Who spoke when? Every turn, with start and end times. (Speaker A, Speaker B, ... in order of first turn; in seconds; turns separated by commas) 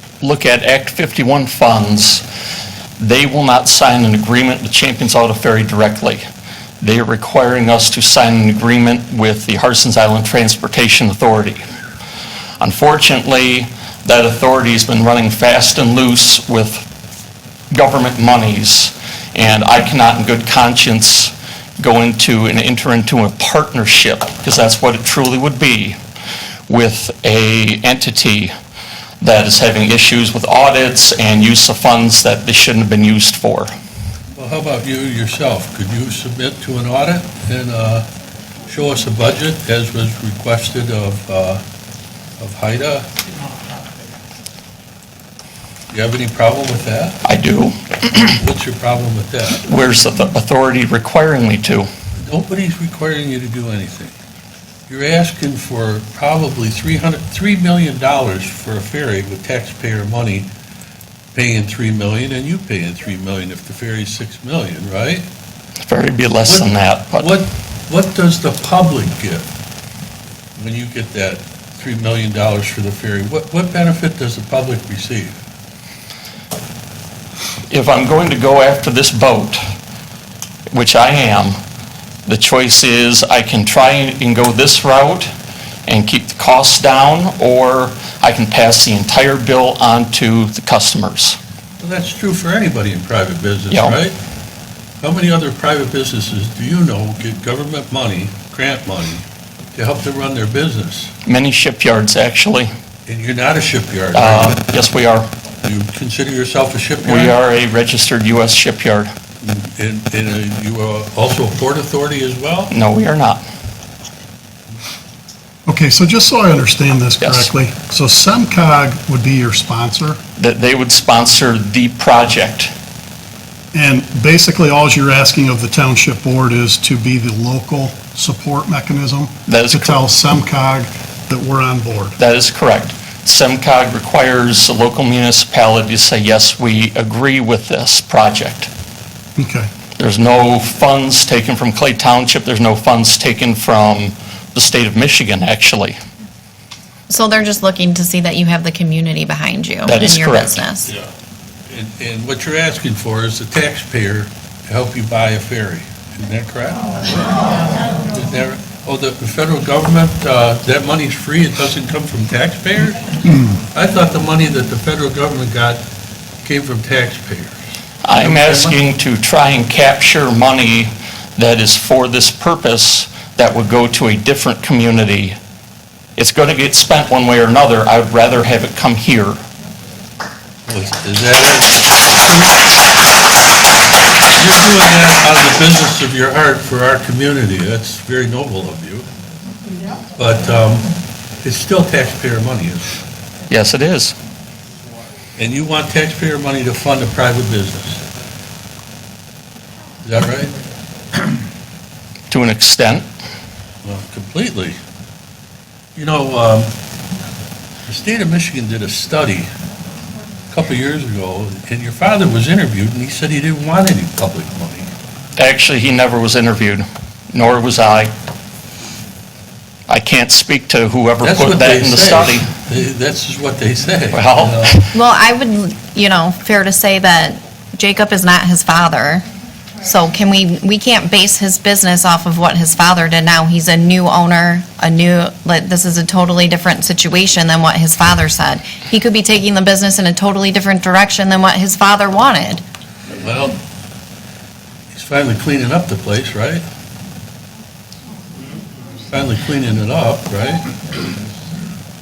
Speaker A: 0.2-2.2, Speaker A: 3.0-6.2, Speaker A: 6.8-11.6, Speaker A: 12.6-16.8, Speaker A: 17.7-26.0, Speaker A: 26.7-28.5, Speaker A: 29.2-33.7, Speaker B: 34.3-38.1, Speaker B: 38.7-41.6, Speaker B: 42.4-43.1, Speaker B: 45.9-47.2, Speaker A: 47.2-48.3, Speaker B: 48.4-49.6, Speaker A: 49.6-51.9, Speaker B: 52.2-54.1, Speaker B: 54.9-60.5, Speaker B: 61.3-65.3, Speaker A: 65.9-67.3, Speaker B: 66.5-69.5, Speaker B: 70.5-75.4, Speaker A: 77.7-79.6, Speaker A: 80.7-81.6, Speaker A: 82.3-85.3, Speaker A: 85.9-91.4, Speaker B: 91.8-94.1, Speaker A: 93.7-94.0, Speaker B: 95.0-99.2, Speaker B: 99.7-101.1, Speaker A: 101.2-102.7, Speaker B: 103.1-104.6, Speaker A: 104.1-105.3, Speaker B: 105.6-107.3, Speaker A: 107.0-109.1, Speaker B: 109.4-112.7, Speaker A: 112.7-113.4, Speaker C: 115.7-120.2, Speaker A: 117.2-117.5, Speaker A: 120.4-122.7, Speaker C: 123.7-132.2, Speaker A: 129.5-130.0, Speaker A: 132.2-138.7, Speaker C: 139.3-139.7, Speaker A: 140.0-145.9, Speaker D: 147.1-150.9, Speaker A: 149.8-150.6, Speaker B: 151.7-157.4, Speaker B: 158.1-165.8, Speaker B: 166.4-167.5, Speaker A: 168.0-175.3, Speaker B: 168.2-168.8, Speaker A: 176.2-179.4, Speaker B: 180.7-182.6, Speaker B: 184.3-189.1, Speaker B: 190.2-192.9, Speaker A: 193.5-194.1, Speaker B: 195.4-198.0, Speaker B: 200.0-200.5, Speaker A: 202.3-203.1, Speaker B: 203.8-204.8, Speaker B: 205.9-206.7, Speaker B: 207.9-209.5, Speaker B: 210.5-214.9, Speaker A: 215.4-218.1, Speaker A: 219.9-222.5, Speaker B: 221.2-224.8, Speaker A: 224.1-224.9, Speaker D: 224.9-229.2, Speaker D: 229.8-242.6, Speaker B: 243.2-243.6, Speaker B: 244.9-246.6, Speaker B: 249.1-250.8